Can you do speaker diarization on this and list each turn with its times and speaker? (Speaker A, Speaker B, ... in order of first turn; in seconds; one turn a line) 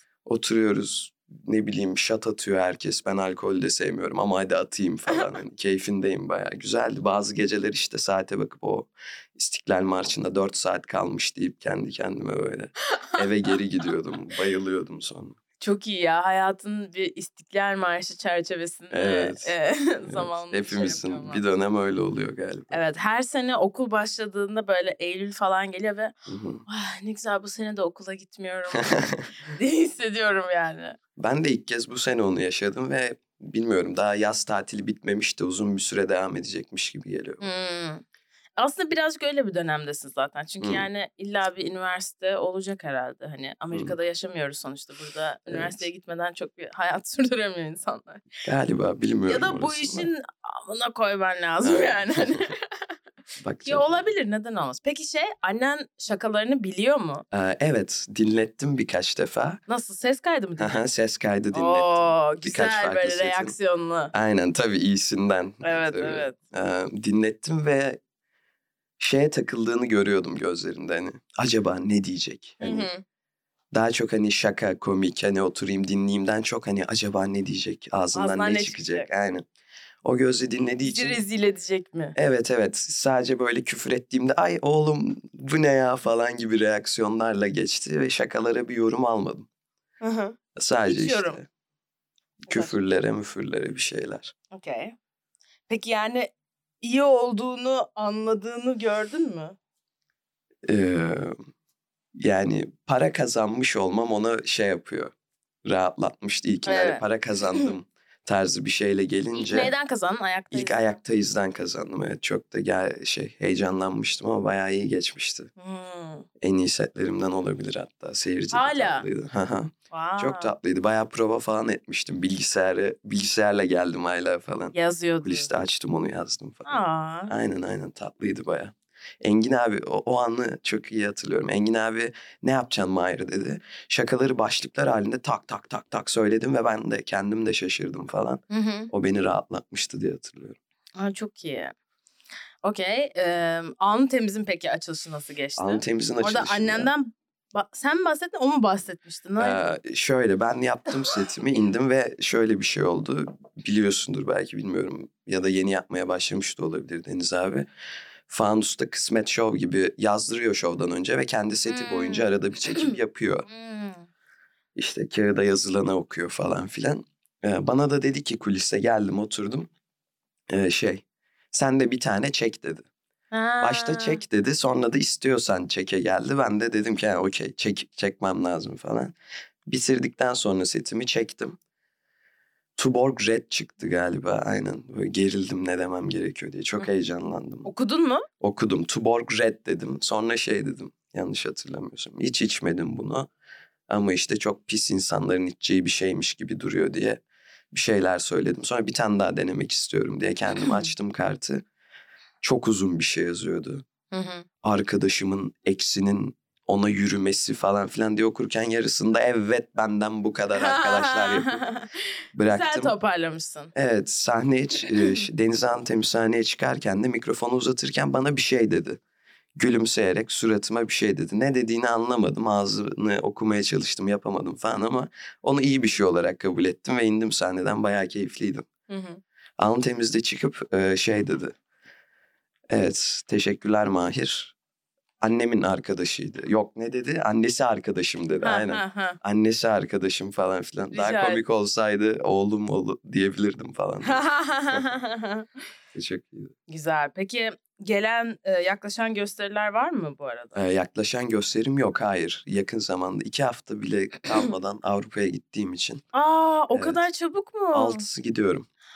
Speaker A: 0.2-15.3
Speaker B: 12.9-13.2
Speaker B: 15.6-21.4
Speaker A: 18.9-19.5
Speaker A: 20.1-22.8
Speaker B: 22.7-26.1
Speaker A: 26.3-26.6
Speaker B: 26.7-31.0
Speaker A: 28.8-29.2
Speaker A: 31.2-37.4
Speaker B: 37.4-38.0
Speaker B: 38.6-48.3
Speaker A: 40.6-40.9
Speaker A: 45.5-45.9
Speaker A: 48.4-50.1
Speaker B: 49.3-52.6
Speaker A: 51.6-52.5
Speaker A: 53.4-54.0
Speaker B: 53.6-57.2
Speaker A: 57.3-59.6
Speaker B: 59.7-60.8
Speaker A: 60.6-63.5
Speaker B: 61.5-64.1
Speaker A: 64.1-68.0
Speaker B: 65.6-66.3
Speaker A: 69.0-72.9
Speaker B: 72.6-73.0
Speaker A: 73.7-79.4
Speaker B: 78.1-79.1
Speaker A: 80.0-81.2
Speaker B: 80.8-82.2
Speaker A: 82.2-89.5
Speaker B: 90.0-91.4
Speaker A: 90.5-91.5
Speaker A: 92.5-94.3
Speaker B: 94.5-95.0
Speaker B: 95.7-99.5
Speaker A: 100.6-101.4
Speaker A: 102.1-105.1
Speaker A: 105.6-109.7
Speaker B: 106.7-107.0
Speaker B: 109.4-110.8
Speaker A: 110.5-115.5
Speaker B: 115.6-116.3
Speaker A: 116.4-140.6
Speaker B: 118.5-119.0
Speaker B: 119.9-120.5
Speaker B: 124.7-125.5
Speaker B: 126.7-127.3
Speaker B: 138.5-138.9
Speaker B: 141.0-141.7
Speaker B: 142.6-149.8
Speaker A: 145.6-146.9
Speaker A: 149.4-157.7
Speaker A: 158.3-163.4
Speaker B: 161.7-162.9
Speaker B: 163.5-164.1
Speaker A: 164.7-169.7
Speaker A: 170.5-172.8
Speaker B: 173.3-174.2
Speaker A: 173.6-179.1
Speaker A: 179.7-181.6
Speaker A: 182.8-187.7
Speaker B: 187.6-188.2
Speaker A: 188.4-193.3
Speaker A: 193.9-197.2
Speaker A: 197.7-201.6
Speaker B: 200.6-200.9
Speaker A: 202.4-203.8
Speaker B: 204.1-204.4
Speaker A: 204.6-211.6
Speaker B: 210.5-213.7
Speaker A: 212.3-212.9
Speaker A: 213.7-219.0
Speaker B: 214.9-215.2
Speaker A: 219.6-228.7
Speaker B: 228.9-229.2
Speaker A: 229.6-231.5
Speaker A: 232.7-234.5
Speaker A: 235.2-244.8
Speaker B: 238.4-239.2
Speaker B: 240.9-241.4
Speaker B: 244.0-245.5
Speaker A: 245.9-246.5
Speaker B: 246.7-250.5
Speaker A: 250.5-256.0
Speaker B: 256.1-258.0
Speaker A: 256.7-257.0
Speaker A: 257.7-258.7